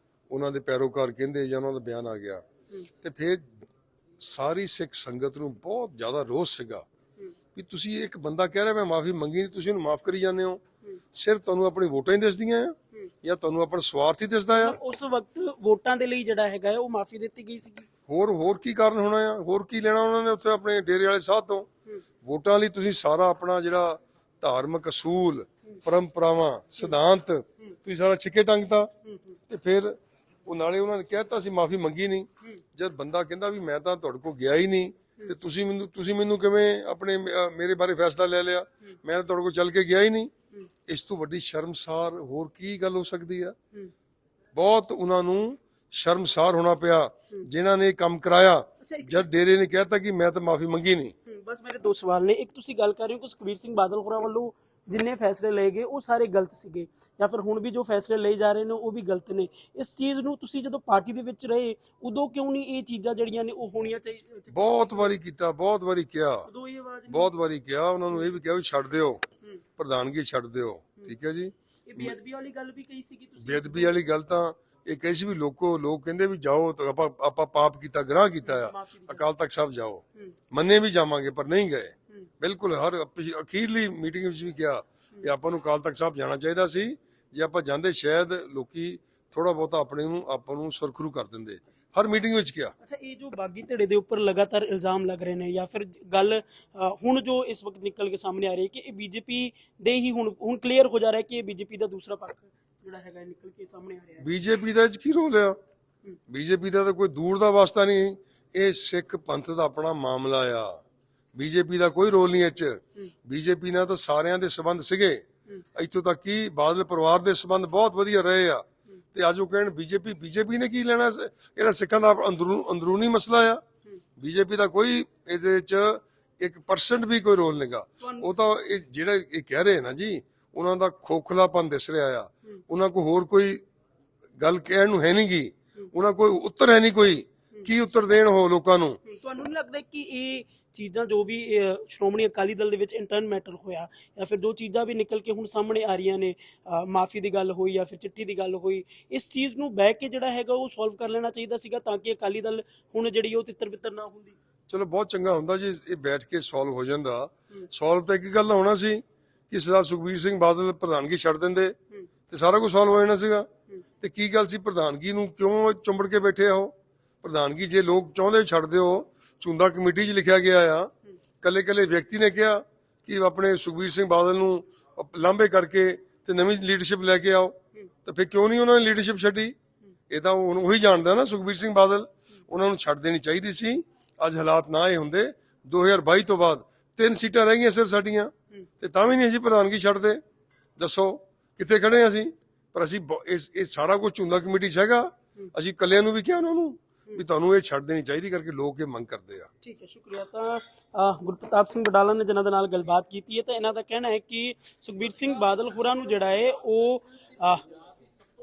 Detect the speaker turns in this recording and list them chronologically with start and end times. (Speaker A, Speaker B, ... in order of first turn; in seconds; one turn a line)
Speaker A: 0.3-2.4
Speaker A: 3.0-3.5
Speaker A: 4.2-6.8
Speaker A: 7.5-10.6
Speaker A: 11.1-14.8
Speaker B: 14.5-17.9
Speaker A: 18.1-21.7
Speaker A: 22.2-28.9
Speaker A: 29.5-40.3
Speaker A: 40.9-43.5
Speaker A: 44.5-51.1
Speaker B: 48.8-49.3
Speaker B: 51.2-65.2
Speaker A: 64.5-66.5
Speaker B: 66.5-67.3
Speaker A: 67.1-69.2
Speaker A: 69.8-72.1
Speaker B: 71.9-73.9
Speaker A: 73.4-92.7
Speaker B: 78.4-79.2
Speaker B: 92.8-104.3
Speaker A: 104.2-105.6
Speaker A: 106.3-110.8
Speaker A: 111.3-123.6
Speaker A: 124.2-133.6
Speaker B: 128.0-128.3
Speaker A: 134.4-139.0
Speaker B: 139.0-154.4
Speaker A: 154.7-161.7
Speaker A: 162.3-163.5
Speaker A: 164.0-170.9
Speaker A: 171.4-179.5
Speaker A: 180.1-190.2
Speaker A: 190.8-199.5
Speaker B: 199.6-207.7